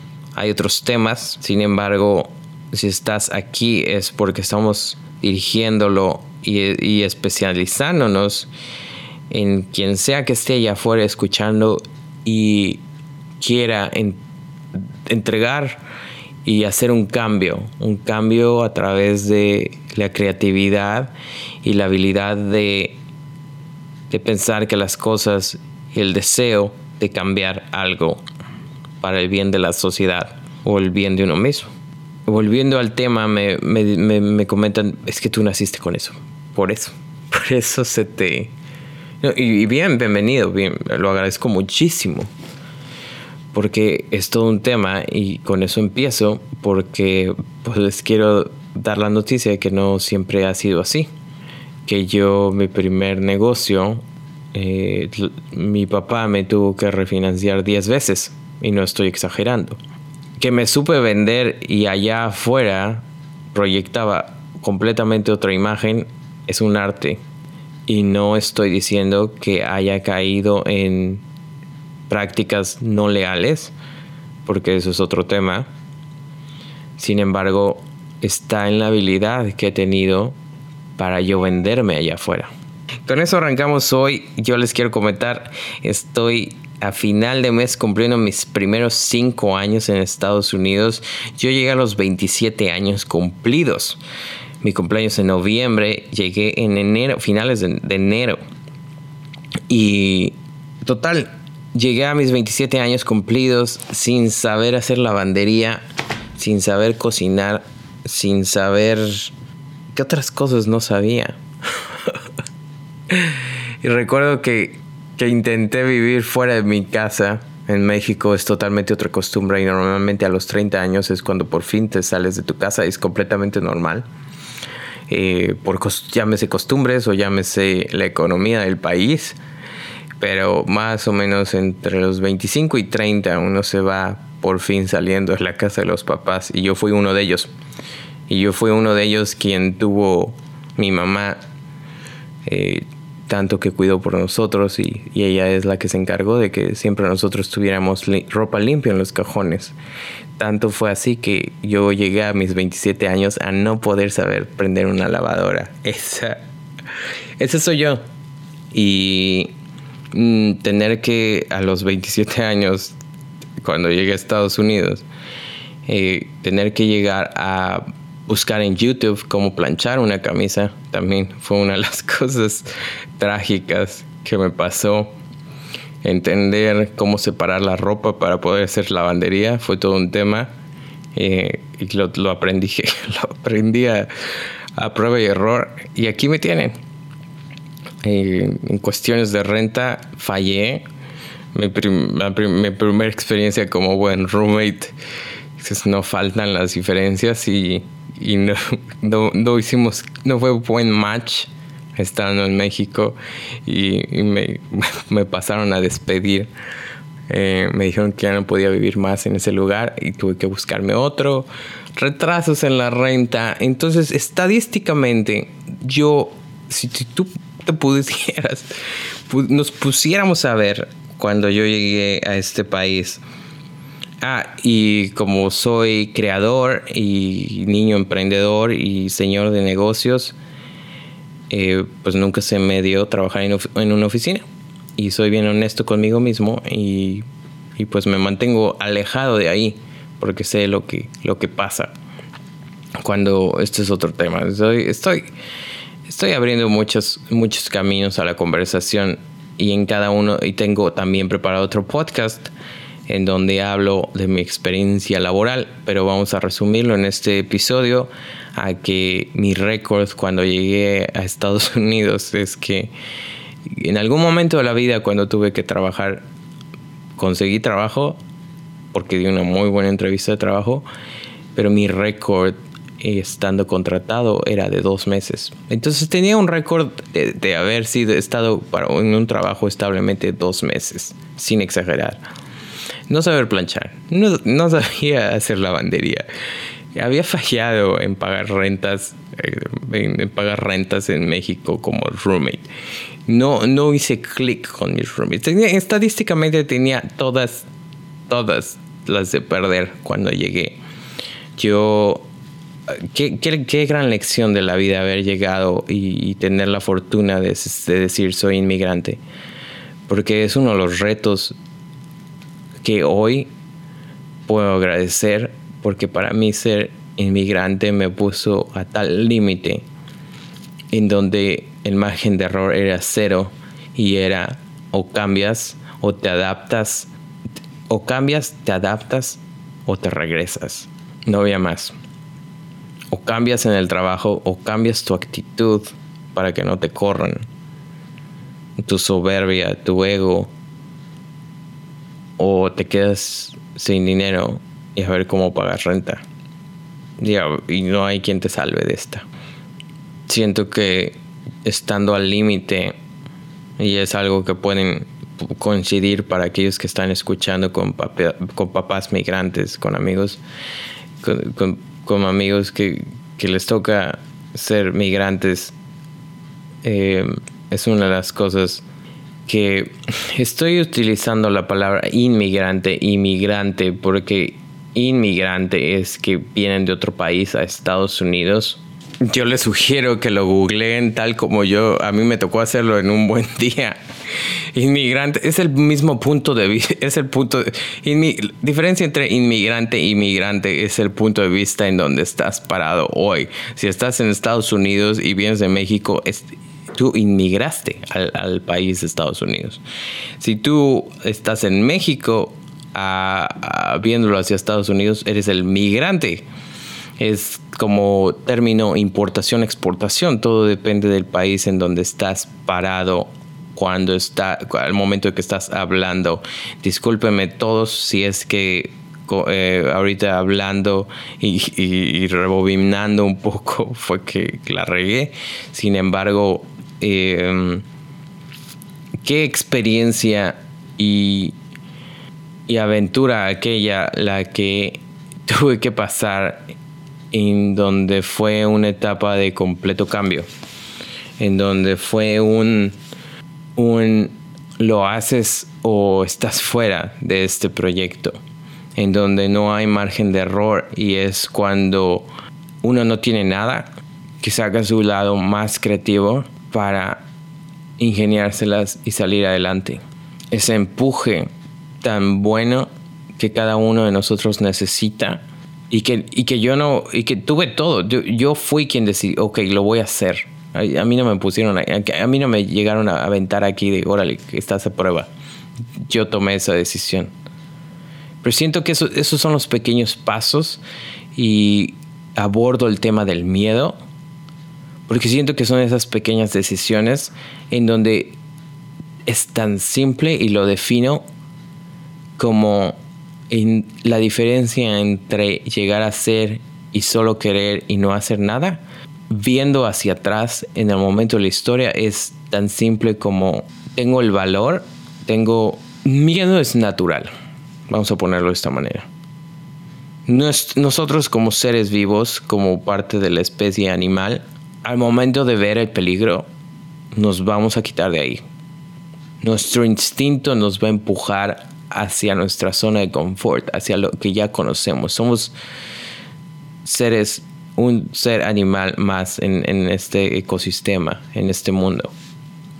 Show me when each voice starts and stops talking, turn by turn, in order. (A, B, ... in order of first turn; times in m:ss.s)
0:00.3-0:08.5 A
0:09.3-0:12.8 A
0:13.4-0:14.2 A
0:14.7-0:15.8 A
0:16.4-0:21.1 A
0:21.6-0:23.0 A
0:24.1-0:28.2 A
0:29.0-0:31.7 A
0:32.3-0:38.5 A
0:39.2-0:42.3 A
0:43.5-0:51.1 A
0:51.8-0:54.0 A
0:54.5-0:59.8 A
1:00.4-1:07.2 A
1:07.9-1:11.2 A
1:12.1-1:13.7 A
1:14.4-1:15.6 A
1:17.0-1:20.3 A
1:21.0-1:22.5 A
1:23.0-1:34.0 A
1:34.6-1:38.4 A
1:39.7-1:45.8 A
1:46.4-1:49.3 A
1:49.9-1:51.4 A
1:53.1-2:04.0 A
2:05.1-2:09.4 A
2:10.2-2:17.5 A
2:18.3-2:21.4 A
2:22.4-2:29.8 A
2:30.4-2:36.4 A
2:37.4-2:38.0 A
2:38.7-2:39.5 A
2:40.1-2:42.9 A
2:43.6-2:45.0 A
2:45.9-2:52.7 A
2:53.2-2:55.1 A
2:56.0-3:00.5 A
3:01.1-3:04.1 A
3:04.8-3:06.7 A
3:08.0-3:10.8 A
3:11.5-3:14.9 A
3:15.6-3:26.5 A
3:27.3-3:38.7 A
3:39.3-3:43.2 A
3:44.2-3:50.4 A
3:51.5-3:54.4 A
3:55.0-3:57.2 A
3:57.8-4:01.9 A
4:03.0-4:05.3 A
4:06.0-4:12.5 A
4:13.1-4:22.9 A
4:23.7-4:26.2 A
4:27.2-4:28.2 A
4:28.9-4:30.8 A
4:31.5-4:42.2 A
4:43.1-4:46.2 A
4:46.9-4:52.6 A
4:53.3-4:57.7 A
4:58.3-5:00.8 A
5:01.6-5:02.3 A
5:02.9-5:09.2 A
5:10.1-5:11.6 A
5:12.8-5:13.5 A
5:14.5-5:19.8 A
5:20.9-5:27.1 A
5:27.9-5:31.9 A
5:33.1-5:37.4 A
5:38.8-5:40.5 A
5:42.4-5:46.2 A
5:47.2-5:49.2 A
5:50.3-5:52.9 A
5:53.8-6:00.4 A
6:01.2-6:05.7 A
6:06.8-6:08.8 A
6:09.4-6:24.0 A
6:24.7-6:39.8 A
6:40.4-6:46.4 A
6:47.2-7:07.8 A
7:09.2-7:11.5 A
7:12.7-7:16.6 A
7:17.3-7:20.5 A
7:21.4-7:22.9 A
7:23.8-7:28.4 A
7:29.0-7:32.3 A
7:32.8-7:37.2 A
7:38.0-7:41.5 A
7:42.0-7:55.3 A
7:56.0-7:57.3 A
7:58.4-8:00.8 A
8:01.3-8:04.0 A
8:05.1-8:08.4 A
8:09.2-8:11.2 A
8:12.4-8:13.0 A
8:13.5-8:27.3 A
8:27.9-8:29.1 A
8:30.3-8:36.4 A
8:37.1-8:38.4 A
8:39.4-8:45.5 A
8:46.8-8:52.1 A